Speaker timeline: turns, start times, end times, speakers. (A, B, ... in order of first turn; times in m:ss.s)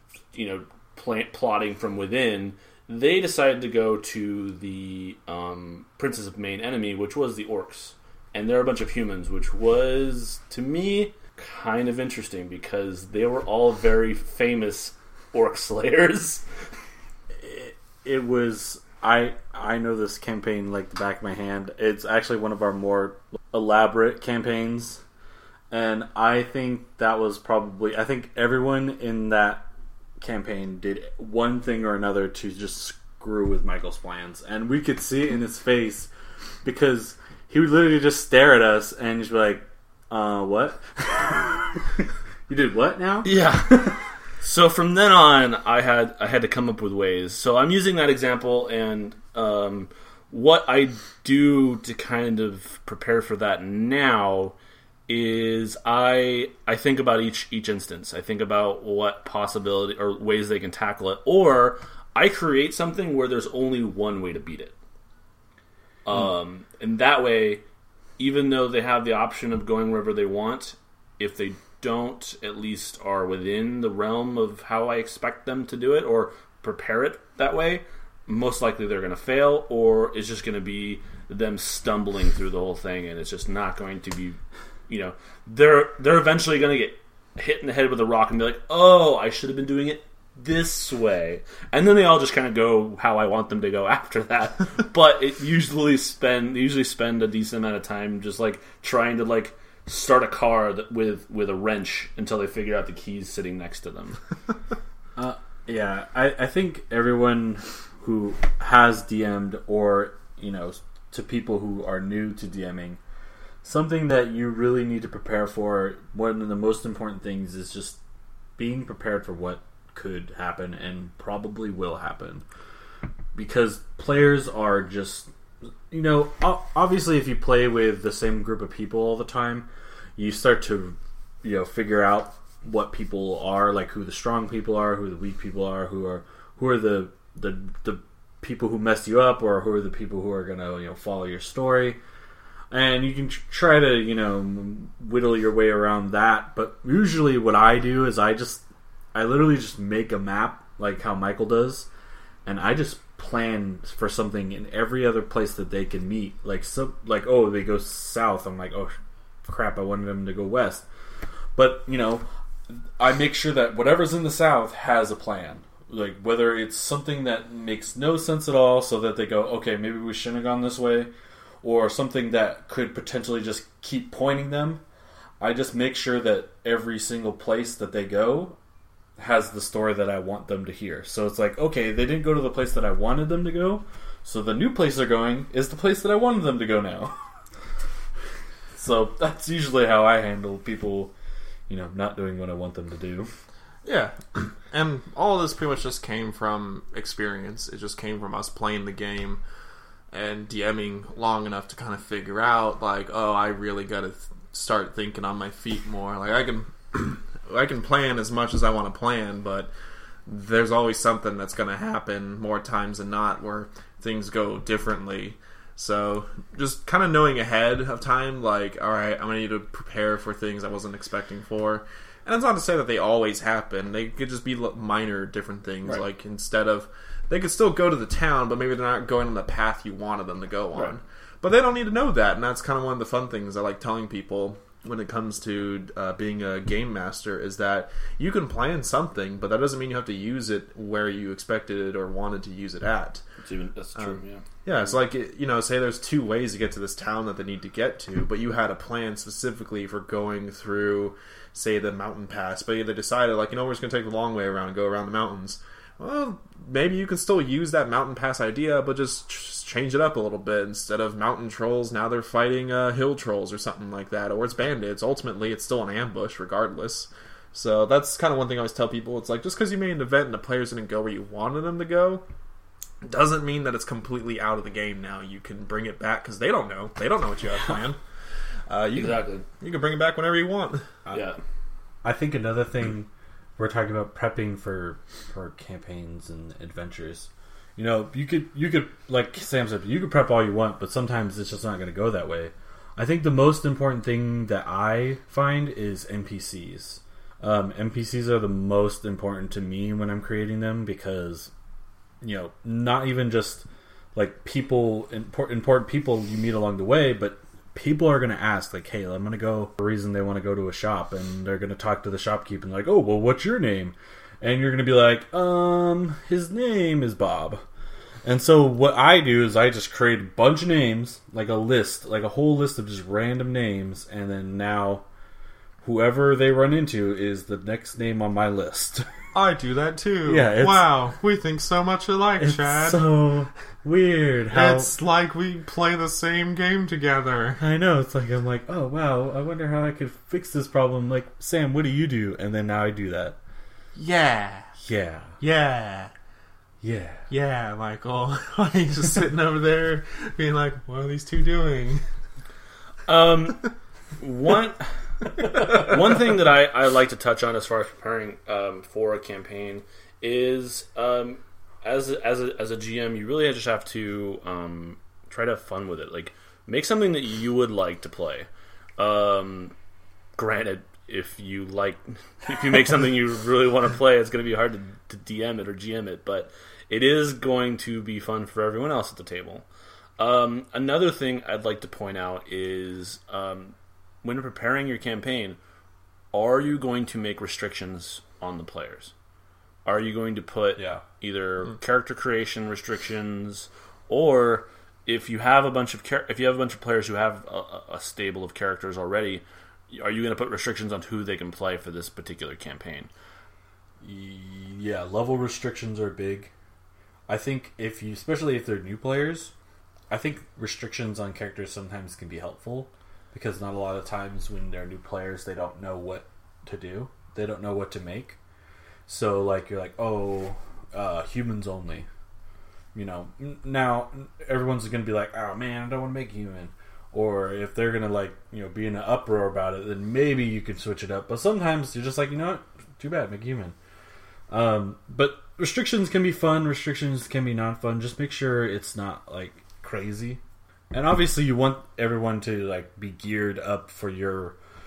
0:00.3-0:16.4 A
0:17.4-0:25.0 B
0:25.7-0:29.7 B
0:30.2-0:36.1 B
0:36.6-0:44.0 B
0:43.2-0:54.5 A
0:55.1-1:04.7 A
1:06.0-1:07.6 A
1:08.2-1:44.2 A
1:45.2-1:53.0 B
1:53.6-1:58.0 B
1:58.6-2:02.4 B
2:03.3-2:05.3 B
2:05.9-2:22.0 B
2:22.7-2:31.9 B
2:32.4-2:38.9 B
2:39.4-2:40.8 B
2:41.5-2:51.1 B
2:51.6-2:54.8 B
2:55.4-2:58.6 B
2:59.2-3:07.1 B
3:08.7-3:11.1 B
3:11.7-3:13.3 B
3:13.8-3:19.4 C
3:20.1-3:29.7 C
3:30.3-4:03.2 C
4:03.4-4:04.6 A
4:04.0-4:32.2 C
4:33.0-4:38.0 C
4:38.7-4:41.1 C
4:38.9-4:39.4 A
4:41.1-4:41.4 A
4:42.0-5:01.5 B
5:02.2-5:17.6 B
5:18.2-5:25.0 B
5:25.8-5:29.0 B
5:29.3-5:33.0 C
5:30.2-5:30.9 B
5:32.4-5:34.9 B
5:34.5-5:37.6 C
5:37.6-5:43.4 B
5:44.0-5:44.7 C
5:44.8-5:45.4 B
5:45.4-5:46.1 C
5:46.8-5:47.3 B
5:47.3-5:52.0 C
5:53.1-6:09.7 A
6:10.4-6:19.6 A
6:20.2-6:25.6 A
6:26.3-6:29.1 A
6:29.8-6:43.1 A
6:30.8-6:31.0 B
6:44.0-6:46.5 B
6:47.3-6:49.5 B
6:50.1-6:58.4 B
6:59.1-7:02.1 B
7:02.9-7:13.7 B
7:14.5-7:20.4 B
7:20.9-7:24.6 B